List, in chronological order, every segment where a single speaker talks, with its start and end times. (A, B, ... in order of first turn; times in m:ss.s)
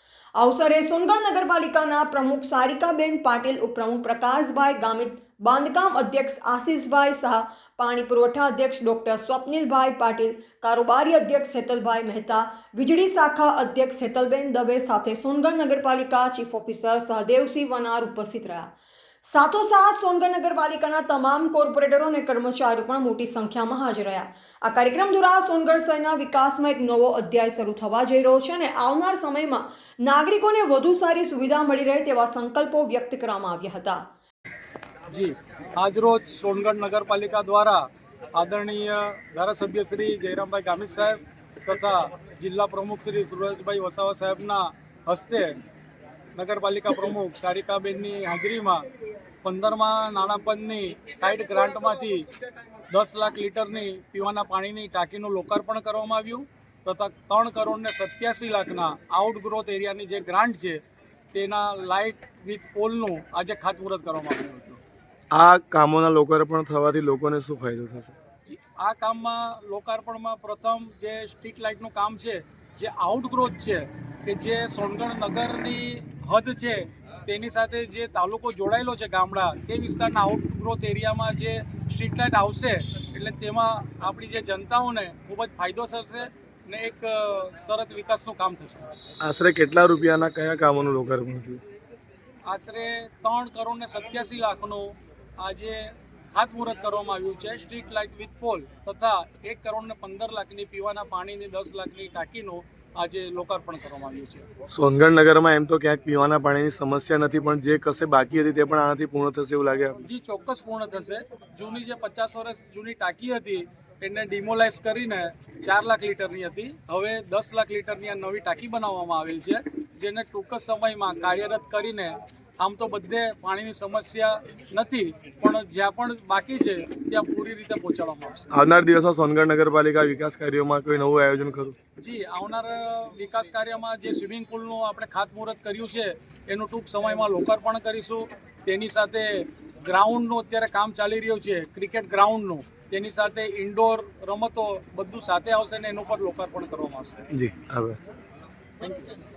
0:00.4-0:34.0 A
0:35.1-0:37.8 B
0:38.3-0:45.6 B
0:46.3-0:48.9 B
0:49.4-0:52.3 B
0:52.9-1:00.8 B
1:01.3-1:04.8 B
1:05.3-1:08.1 C
1:08.4-1:28.8 B
1:29.2-1:31.6 C
1:32.5-1:44.4 B
1:44.7-1:50.0 C
1:50.0-2:08.5 B
2:08.5-2:11.8 C
2:12.0-2:27.2 B
2:27.3-2:28.0 C
2:28.8-2:29.2 B